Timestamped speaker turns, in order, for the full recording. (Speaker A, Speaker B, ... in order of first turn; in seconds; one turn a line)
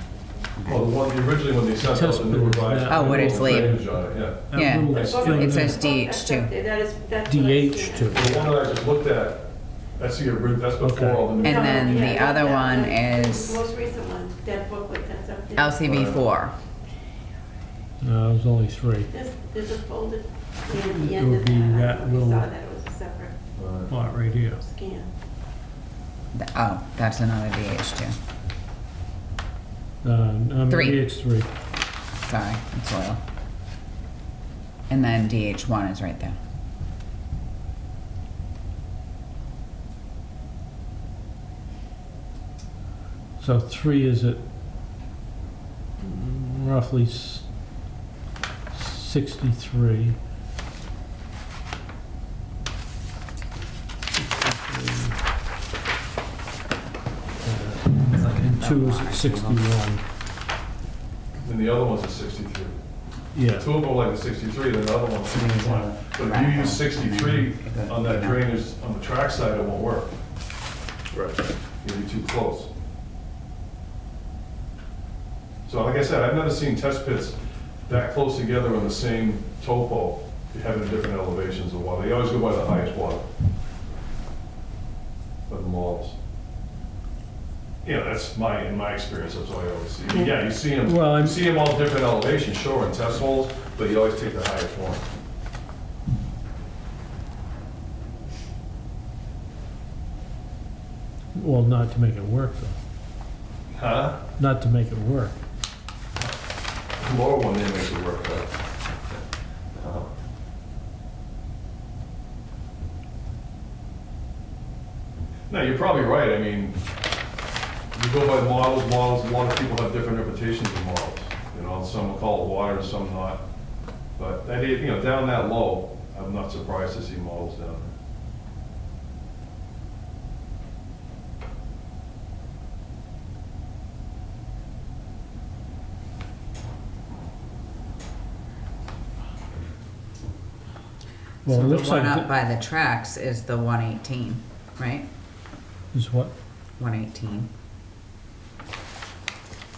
Speaker A: 0.7-5.3
Speaker B: 1.8-4.0
Speaker C: 2.9-3.8
Speaker B: 4.5-5.8
Speaker C: 4.6-6.5
Speaker D: 5.0-8.1
Speaker B: 7.3-8.5
Speaker A: 8.1-12.0
Speaker B: 10.8-11.5
Speaker C: 11.4-13.7
Speaker D: 11.4-15.8
Speaker C: 15.6-16.6
Speaker A: 15.8-16.2
Speaker B: 18.0-19.1
Speaker D: 19.1-23.4
Speaker B: 20.7-22.5
Speaker A: 23.6-23.9
Speaker B: 23.9-24.6
Speaker D: 24.6-25.1
Speaker C: 26.3-28.2
Speaker B: 30.0-31.5
Speaker C: 30.7-31.1
Speaker C: 32.3-33.2
Speaker C: 34.9-36.4
Speaker B: 43.4-44.4
Speaker B: 46.0-47.5
Speaker B: 48.7-50.2
Speaker B: 54.1-55.2
Speaker B: 57.4-60.0
Speaker C: 58.4-59.6
Speaker A: 61.4-62.8
Speaker B: 63.3-63.7
Speaker A: 63.5-70.1
Speaker C: 65.4-68.5
Speaker A: 71.8-72.7
Speaker A: 75.7-83.2
Speaker A: 85.5-86.2
Speaker A: 87.8-95.0
Speaker B: 90.8-91.4
Speaker B: 101.3-102.8
Speaker A: 103.8-104.2
Speaker B: 104.4-105.4
Speaker A: 107.0-108.5
Speaker A: 109.8-110.1
Speaker A: 115.5-116.8
Speaker A: 117.9-123.4
Speaker A: 124.2-127.9
Speaker B: 141.4-142.3
Speaker C: 141.5-145.1
Speaker B: 145.9-146.3
Speaker C: 146.8-147.5